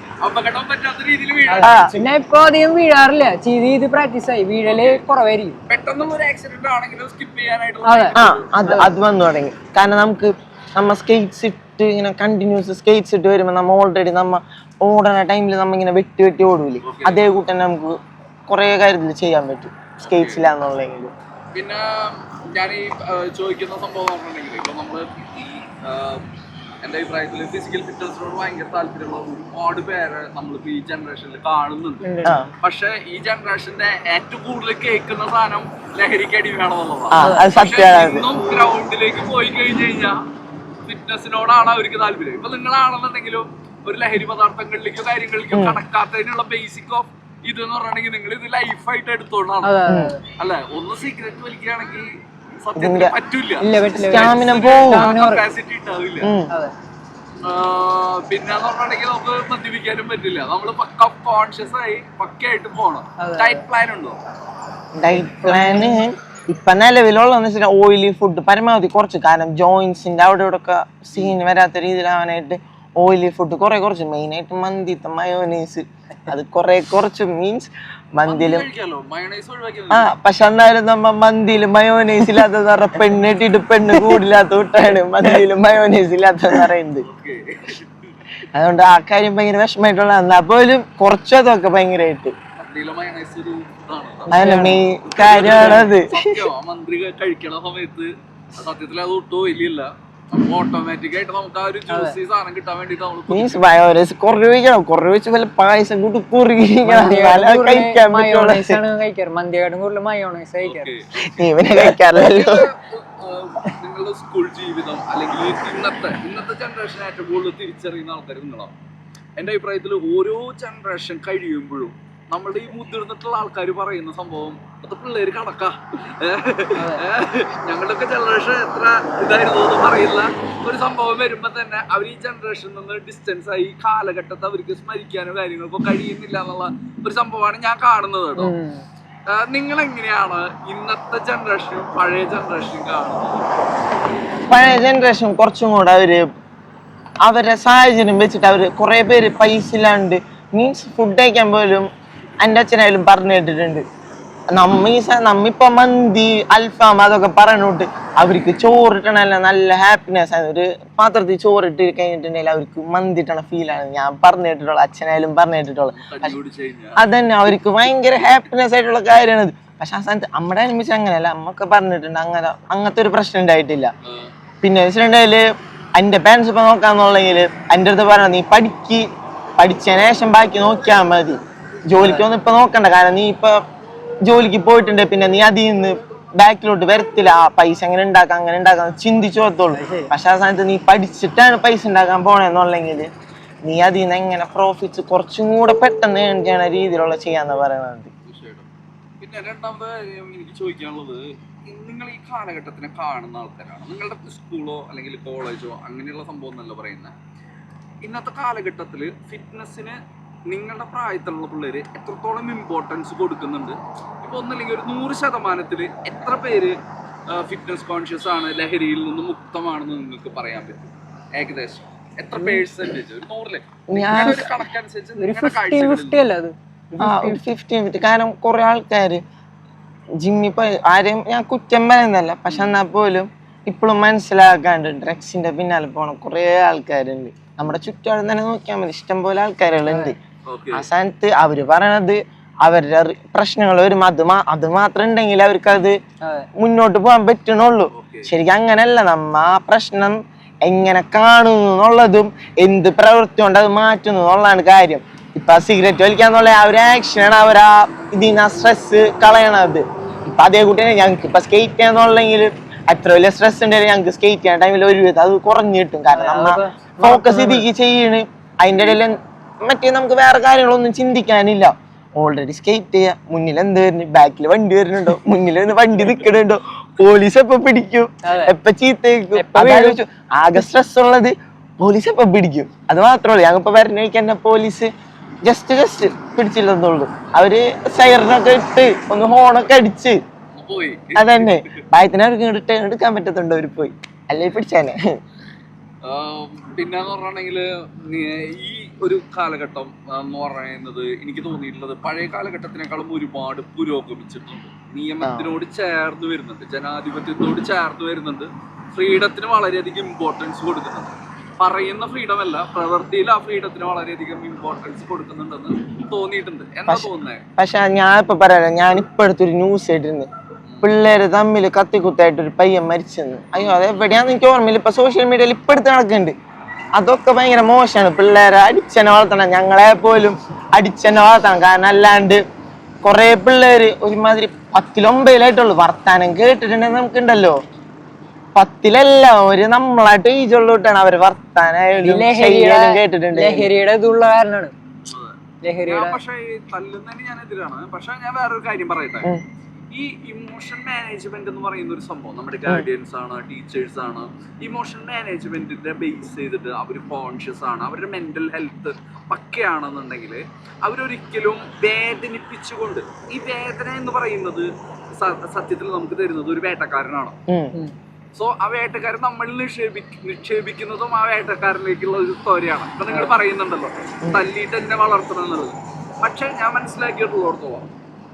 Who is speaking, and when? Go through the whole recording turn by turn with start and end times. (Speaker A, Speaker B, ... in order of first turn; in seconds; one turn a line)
Speaker A: 0.2-1.8
Speaker B: 1.5-5.6
Speaker C: 1.6-2.0
Speaker A: 4.7-5.0
Speaker A: 5.7-8.6
Speaker B: 7.8-8.9
Speaker C: 8.2-18.0
Speaker A: 16.8-17.2
Speaker C: 18.5-21.1
Speaker A: 20.0-20.4
Speaker A: 21.5-26.2
Speaker A: 26.8-40.2
Speaker B: 32.0-32.5
Speaker C: 37.1-38.3
Speaker B: 37.2-37.5
Speaker A: 40.9-49.8
Speaker C: 45.5-45.8
Speaker B: 49.6-50.2
Speaker C: 49.9-50.1
Speaker A: 50.4-52.1
Speaker A: 52.6-56.3
Speaker C: 52.8-53.1
Speaker B: 53.6-55.5
Speaker C: 53.9-55.1
Speaker C: 56.2-56.5
Speaker A: 57.4-64.2
Speaker B: 63.2-63.6
Speaker C: 65.0-78.7
Speaker B: 65.1-66.0
Speaker A: 78.3-80.1
Speaker C: 79.9-87.1
Speaker A: 87.1-87.9
Speaker C: 88.5-92.3
Speaker A: 92.6-94.4
Speaker B: 94.3-94.8
Speaker C: 94.3-96.4
Speaker A: 95.1-103.6
Speaker B: 95.4-95.9
Speaker B: 101.9-102.2
Speaker C: 103.3-108.8
Speaker B: 106.8-110.9
Speaker A: 110.6-111.4
Speaker C: 111.2-112.7
Speaker A: 112.1-118.7
Speaker A: 119.4-138.5
Speaker B: 126.8-127.0
Speaker B: 138.4-138.8
Speaker A: 139.3-143.6
Speaker C: 144.5-146.3
Speaker C: 147.2-151.9
Speaker C: 152.4-153.8
Speaker C: 154.6-166.3
Speaker A: 165.9-167.0
Speaker C: 167.0-173.9
Speaker A: 174.1-174.3
Speaker C: 174.6-175.4
Speaker C: 176.0-183.6
Speaker B: 182.0-182.3
Speaker C: 184.2-193.1
Speaker B: 189.7-190.1
Speaker C: 193.6-198.1
Speaker A: 198.3-198.7
Speaker A: 199.2-207.1
Speaker A: 208.0-210.0
Speaker A: 210.5-216.8
Speaker A: 217.3-226.2
Speaker B: 222.4-222.7
Speaker C: 223.9-224.5
Speaker B: 225.2-227.4
Speaker C: 227.0-229.2
Speaker C: 230.2-240.2
Speaker A: 232.5-232.8
Speaker B: 239.9-240.1
Speaker A: 240.5-240.8
Speaker C: 240.7-246.0
Speaker B: 246.2-246.5
Speaker C: 246.6-284.9
Speaker A: 247.9-248.3
Speaker B: 266.1-267.7
Speaker B: 278.2-278.6
Speaker B: 279.4-280.0
Speaker C: 285.4-290.2
Speaker A: 290.6-291.6
Speaker C: 291.2-295.0
Speaker A: 296.0-317.4
Speaker C: 305.2-305.5
Speaker C: 316.9-320.3
Speaker C: 320.8-326.4
Speaker C: 326.9-332.4
Speaker C: 333.0-337.6
Speaker C: 338.6-343.7
Speaker B: 342.0-344.7
Speaker A: 345.1-345.4
Speaker B: 345.6-346.2
Speaker A: 345.9-349.3
Speaker A: 349.9-367.4
Speaker C: 367.5-367.7
Speaker A: 368.4-377.9